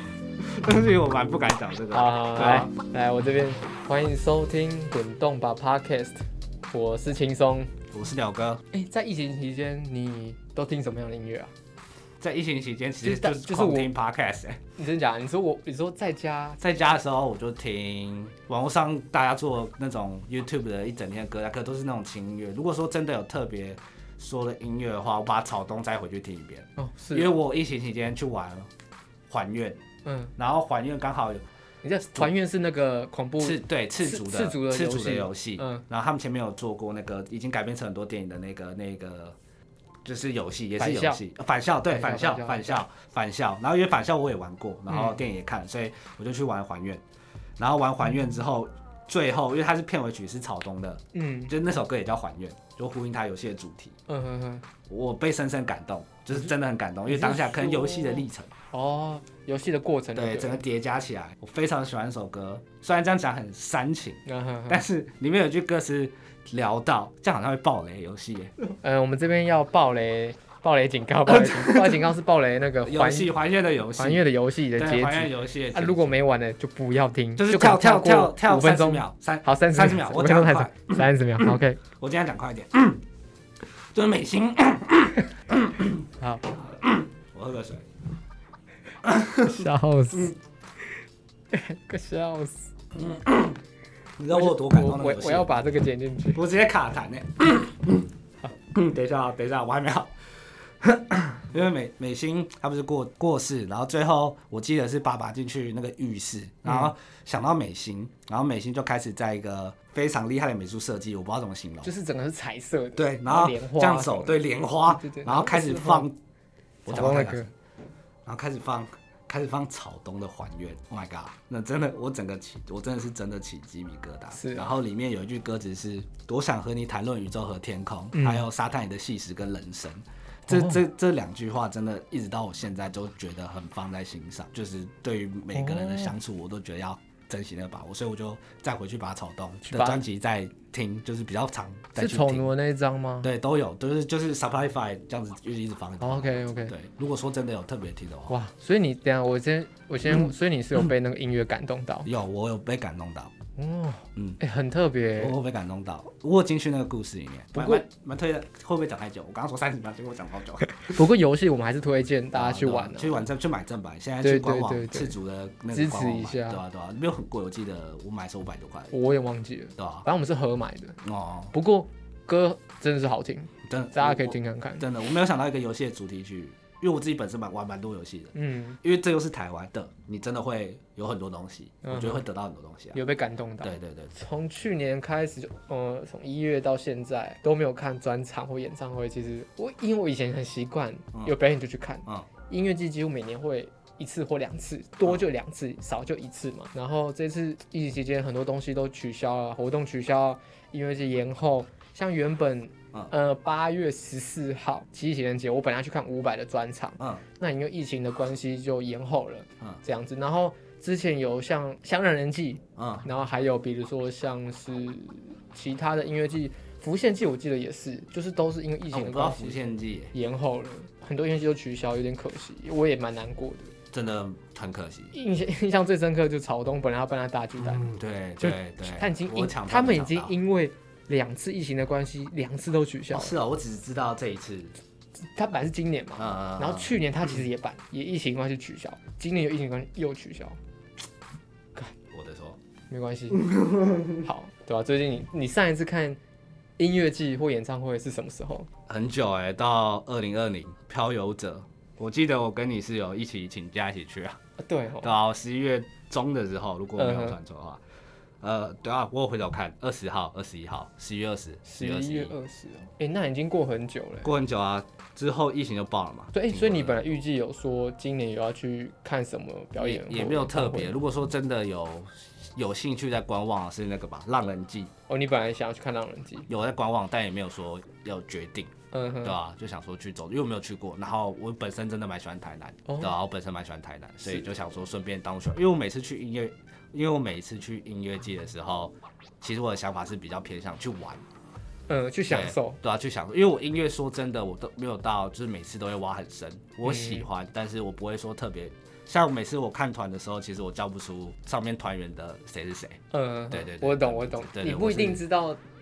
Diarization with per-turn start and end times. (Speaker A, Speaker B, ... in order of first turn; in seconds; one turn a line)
Speaker A: 0.4-2.7
Speaker B: 1.9-6.2
Speaker B: 6.7-7.7
Speaker A: 7.9-8.6
Speaker B: 8.7-11.5
Speaker A: 12.2-14.6
Speaker B: 13.0-13.9
Speaker B: 14.8-16.6
Speaker A: 16.6-28.7
Speaker B: 26.8-27.3
Speaker A: 29.3-29.8
Speaker B: 30.0-30.3
Speaker A: 30.4-31.4
Speaker B: 31.8-35.8
Speaker A: 33.4-39.4
Speaker A: 40.0-47.0
Speaker B: 40.8-41.2
Speaker B: 41.9-42.8
Speaker B: 44.9-45.2
Speaker A: 47.6-54.0
Speaker B: 51.1-51.5
Speaker B: 54.1-54.6
Speaker A: 54.9-58.5
Speaker B: 57.1-60.6
Speaker A: 60.1-68.7
Speaker B: 64.2-64.8
Speaker B: 68.8-73.3
Speaker A: 71.2-72.1
Speaker A: 72.8-76.1
Speaker B: 74.0-81.8
Speaker A: 77.4-83.0
Speaker A: 83.9-87.8
Speaker B: 86.2-86.5
Speaker A: 89.0-90.3
Speaker B: 89.4-90.3
Speaker B: 91.5-92.7
Speaker A: 92.9-93.6
Speaker A: 94.2-95.5
Speaker B: 94.3-96.4
Speaker A: 96.3-98.1
Speaker A: 98.7-100.1
Speaker A: 100.8-111.9
Speaker B: 111.8-116.1
Speaker A: 113.0-116.2
Speaker A: 116.8-117.4
Speaker B: 116.9-117.5
Speaker A: 118.2-142.5
Speaker B: 124.3-124.7
Speaker B: 128.1-128.4
Speaker B: 130.5-130.8
Speaker B: 135.5-136.1
Speaker B: 139.6-140.0
Speaker B: 141.9-143.3
Speaker A: 143.2-148.3
Speaker B: 146.0-146.7
Speaker B: 148.3-152.1
Speaker A: 152.0-153.3
Speaker B: 153.6-155.3
Speaker A: 155.2-160.8
Speaker B: 157.5-157.8
Speaker B: 160.8-163.2
Speaker A: 162.3-168.9
Speaker B: 164.2-165.2
Speaker B: 165.7-166.6
Speaker B: 168.9-171.0
Speaker A: 169.8-170.0
Speaker A: 171.0-171.5
Speaker B: 171.5-174.9
Speaker A: 173.7-183.0
Speaker B: 178.3-178.8
Speaker B: 181.8-182.2
Speaker B: 182.9-219.6
Speaker A: 183.6-184.1
Speaker A: 212.8-213.0
Speaker A: 218.9-220.1
Speaker B: 220.1-223.7
Speaker A: 223.9-225.1
Speaker B: 225.1-233.3
Speaker A: 227.6-230.3
Speaker A: 233.1-234.7
Speaker B: 235.3-240.6
Speaker A: 236.2-237.4
Speaker A: 242.1-242.6
Speaker B: 242.9-243.5
Speaker A: 243.3-244.3
Speaker B: 244.2-246.2
Speaker B: 246.8-248.7
Speaker A: 248.9-254.4
Speaker B: 254.6-255.1
Speaker A: 255.0-257.8
Speaker B: 257.0-257.4
Speaker A: 258.4-262.3
Speaker B: 261.6-264.3
Speaker A: 264.2-267.1
Speaker B: 266.3-270.9
Speaker A: 269.8-274.9
Speaker B: 275.1-276.5
Speaker A: 276.5-291.2
Speaker B: 278.9-279.4
Speaker B: 282.9-283.1
Speaker B: 291.9-292.8
Speaker A: 292.3-303.0
Speaker B: 296.8-297.2
Speaker B: 303.1-305.6
Speaker A: 303.5-305.2